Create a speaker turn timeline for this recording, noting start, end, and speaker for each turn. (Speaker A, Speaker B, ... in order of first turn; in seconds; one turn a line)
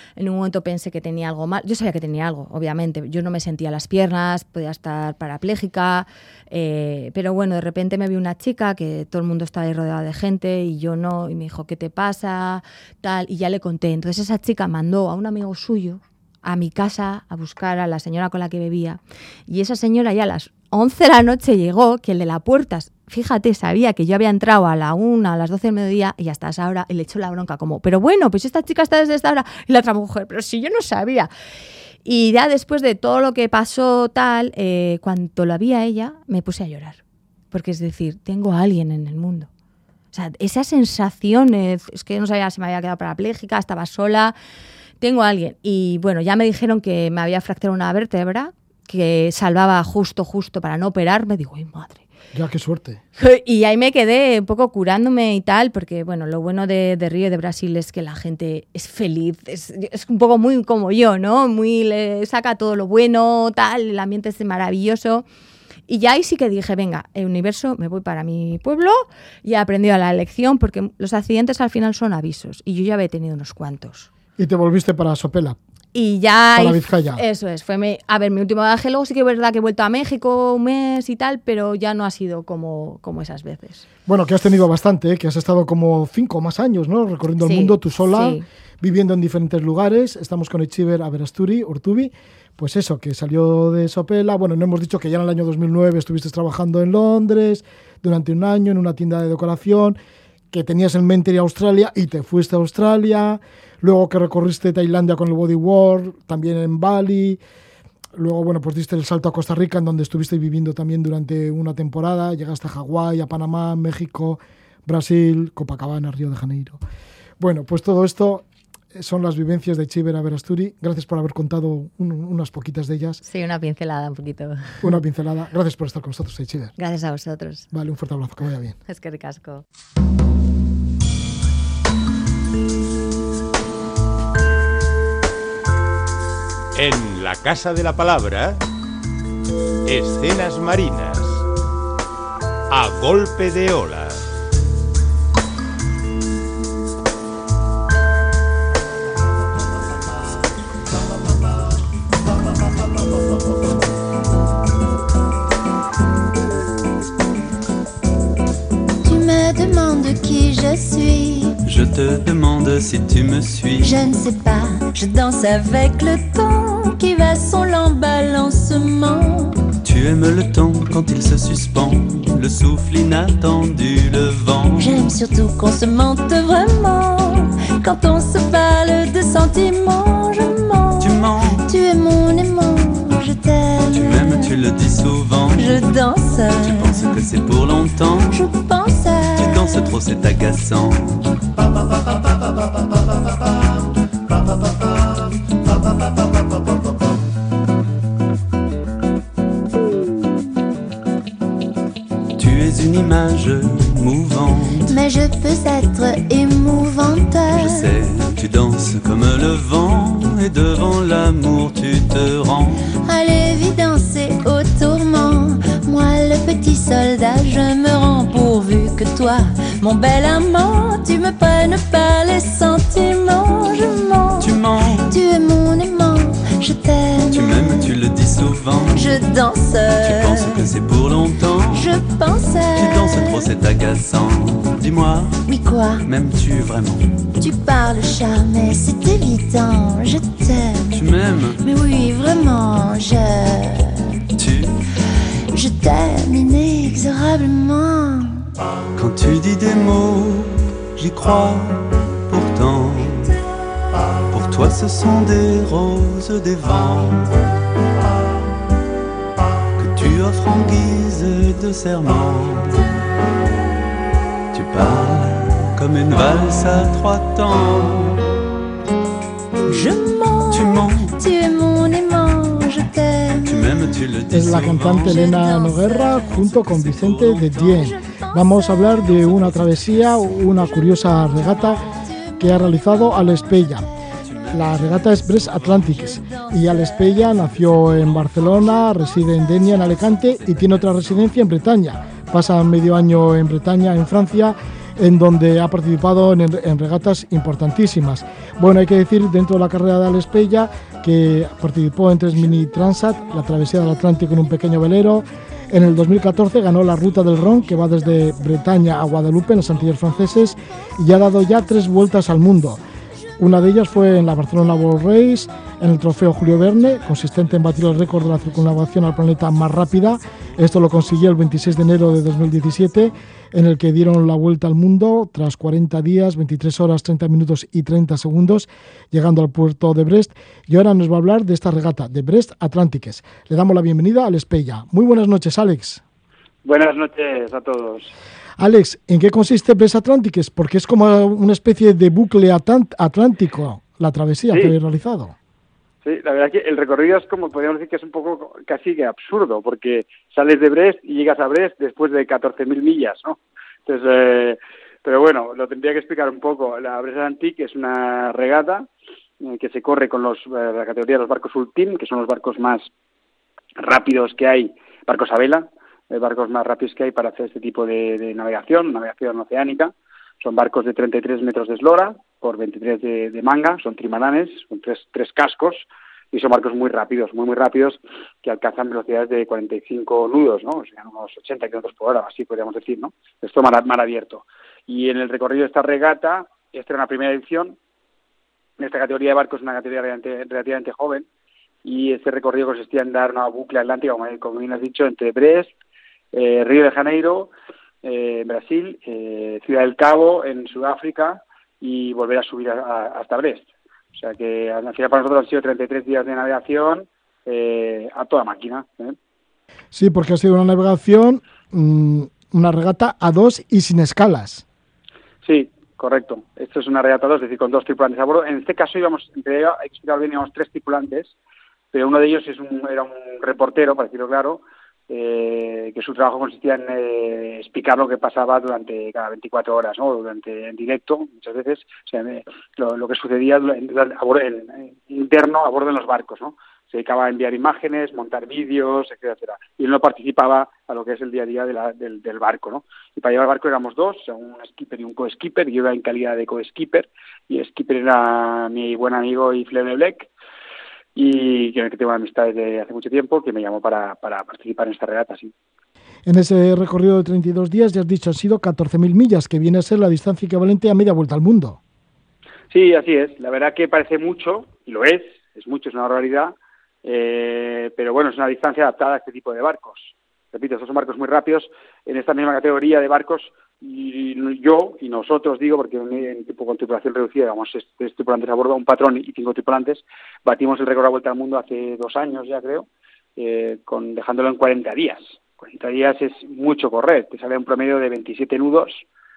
Speaker A: 0.2-31.3
Speaker A: 32.0-37.0
Speaker A: 37.5-39.5
Speaker A: 40.1-44.3
Speaker A: 45.0-52.0
Speaker B: 52.3-53.0
Speaker A: 53.2-65.2
Speaker A: 65.9-74.1
Speaker B: 74.4-75.6
Speaker A: 75.9-83.8
Speaker B: 76.5-77.2
Speaker B: 84.0-100.0
Speaker A: 87.4-88.4
Speaker B: 100.5-107.4
Speaker B: 108.1-116.8
Speaker B: 117.4-123.2
Speaker A: 123.2-124.9
Speaker B: 124.8-126.7
Speaker A: 126.8-127.7
Speaker B: 127.7-128.8
Speaker A: 128.8-129.6
Speaker C: 136.7-138.6
Speaker C: 139.8-141.4
Speaker C: 142.7-144.2
Speaker D: 159.0-161.6
Speaker E: 161.6-164.0
Speaker D: 163.8-169.6
Speaker E: 169.8-174.9
Speaker D: 174.8-184.5
Speaker E: 181.0-181.6
Speaker E: 183.9-185.9
Speaker D: 185.5-187.1
Speaker E: 186.6-188.4
Speaker D: 188.3-189.9
Speaker E: 189.3-191.3
Speaker E: 202.4-204.9
Speaker D: 204.9-207.9
Speaker E: 207.5-212.8
Speaker D: 213.0-227.8
Speaker E: 224.4-225.1
Speaker E: 227.3-229.2
Speaker D: 228.9-230.7
Speaker E: 230.0-231.9
Speaker D: 231.7-233.5
Speaker E: 232.7-235.4
Speaker D: 235.4-236.0
Speaker E: 236.0-237.2
Speaker D: 237.4-241.0
Speaker E: 240.9-241.6
Speaker D: 241.6-244.1
Speaker E: 244.3-244.8
Speaker D: 245.5-248.4
Speaker E: 248.9-253.4
Speaker E: 254.3-257.6
Speaker E: 259.8-262.9
Speaker E: 264.5-268.2
Speaker D: 269.6-273.7
Speaker E: 270.5-271.1
Speaker E: 273.4-275.4
Speaker B: 274.3-281.8
Speaker D: 275.0-276.4
Speaker E: 276.2-277.9
Speaker D: 277.7-278.9
Speaker E: 278.9-280.8
Speaker D: 281.8-282.4
Speaker B: 282.4-283.9
Speaker D: 283.0-283.5
Speaker E: 284.2-286.0
Speaker B: 284.5-312.8
Speaker D: 286.1-287.3
Speaker E: 287.5-288.5
Speaker E: 289.9-291.3
Speaker B: 313.4-336.0
Speaker F: 336.6-338.1
Speaker B: 338.6-345.3
Speaker F: 344.5-344.7
Speaker F: 346.0-358.9
Speaker F: 359.4-362.9
Speaker F: 363.8-387.8
Speaker F: 388.8-391.2
Speaker F: 391.8-395.7
Speaker F: 396.3-397.5
Speaker F: 398.0-409.1
Speaker B: 409.9-414.6
Speaker F: 415.4-421.3
Speaker F: 421.9-450.3
Speaker F: 451.1-455.5
Speaker B: 456.2-461.8
Speaker F: 462.7-482.9
Speaker F: 483.4-489.0